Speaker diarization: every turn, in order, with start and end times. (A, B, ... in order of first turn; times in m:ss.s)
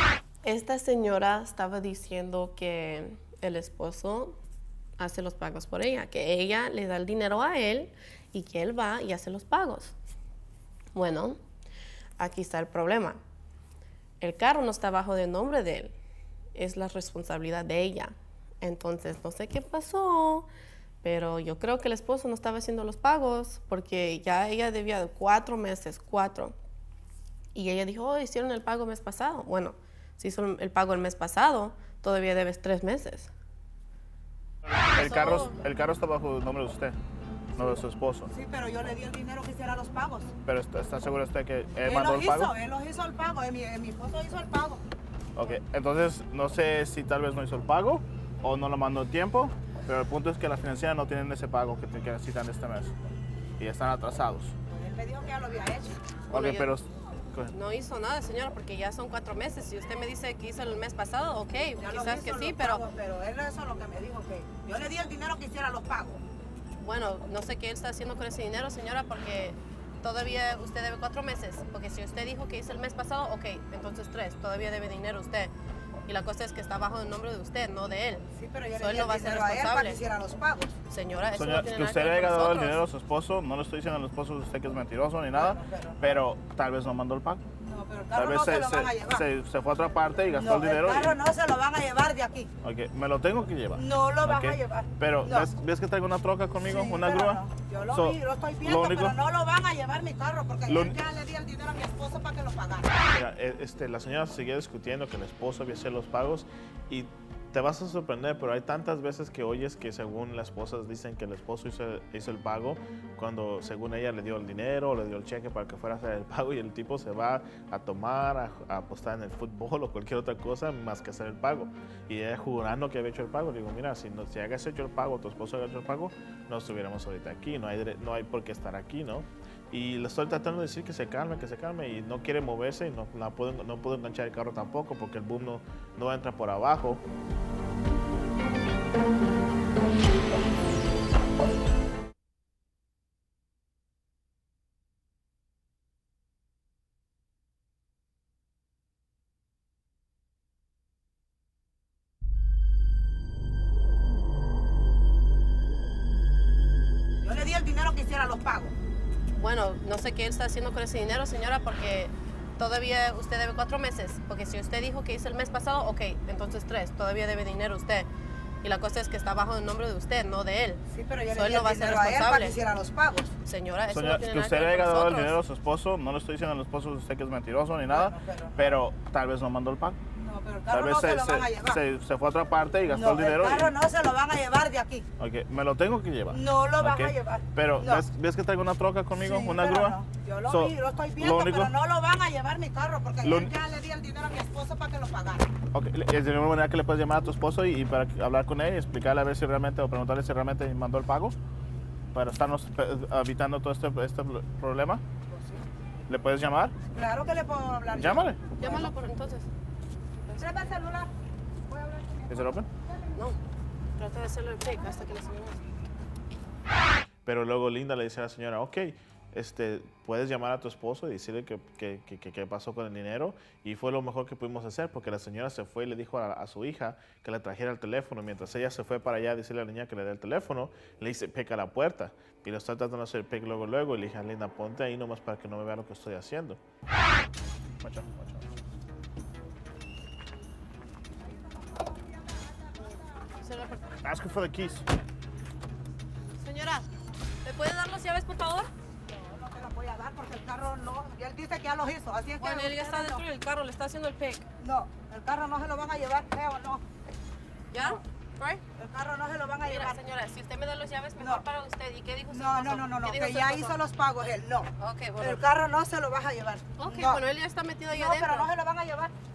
0:00.4-0:04.4 A
0:05.0-0:10.0 A
0:10.9-0:11.4 A
0:12.2-0:13.2 A
0:14.2-0:15.9 A
0:16.5-0:20.5 A
0:21.0-0:26.6 A
0:27.5-0:33.3 A
0:34.7-0:37.0 B
0:34.8-0:35.5 A
0:37.6-0:38.3 B
0:38.3-0:40.3 C
0:40.4-0:42.5 B
0:41.8-0:44.8 C
0:45.4-0:52.9 B
0:53.6-0:54.5 B
0:54.7-0:56.0 C
0:56.3-0:56.7 A
0:56.3-0:57.5 B
0:57.5-1:02.8 A
1:01.8-1:06.2 C
1:06.8-1:15.5 A
1:16.0-1:18.2 A
1:18.3-1:20.7 C
1:18.8-1:20.0 A
1:20.9-1:22.8 A
1:21.4-1:27.4 B
1:25.3-1:26.0 C
1:27.6-1:29.2 C
1:28.1-1:31.2 B
1:30.3-1:32.5 C
1:32.6-1:39.2 B
1:33.7-1:35.5 C
1:36.6-1:43.0 C
1:40.7-1:41.0 B
1:43.1-2:17.0 B
2:37.2-2:38.7 C
2:39.3-2:48.1 A
2:48.6-2:52.6 A
2:50.9-2:53.3 C
2:53.4-2:55.4 A
2:53.9-3:00.0 B
2:57.9-2:58.7 C
3:00.2-3:01.8 C
3:00.7-3:03.7 B
3:02.9-3:05.0 C
3:05.2-3:11.7 B
3:06.3-3:08.0 C
3:09.2-3:15.5 C
3:13.2-3:13.5 B
3:15.7-3:21.4 B
3:22.1-3:25.0 B
3:25.3-3:25.6 C
3:26.1-3:26.7 B
3:26.9-3:28.9 C
3:27.9-3:28.4 B
3:28.6-3:29.5 A
3:30.2-3:30.6 A
3:30.4-3:31.1 C
3:32.3-3:32.7 B
3:34.0-3:35.6 A
3:37.2-3:56.6 B
3:57.8-3:58.5 B
4:02.6-4:03.0 C
4:03.4-4:03.8 A
4:04.0-4:04.8 B
4:06.4-4:06.9 A
4:07.4-4:08.7 A
4:09.1-4:13.2 C
4:12.4-4:14.4 A
4:14.6-4:16.8 C
4:17.7-4:18.6 A
4:18.8-4:20.0 C
4:19.6-4:23.8 A
4:21.2-4:21.4 C
4:22.3-4:27.2 C
4:24.8-4:25.4 A
4:26.8-4:28.5 A
4:27.9-4:29.1 C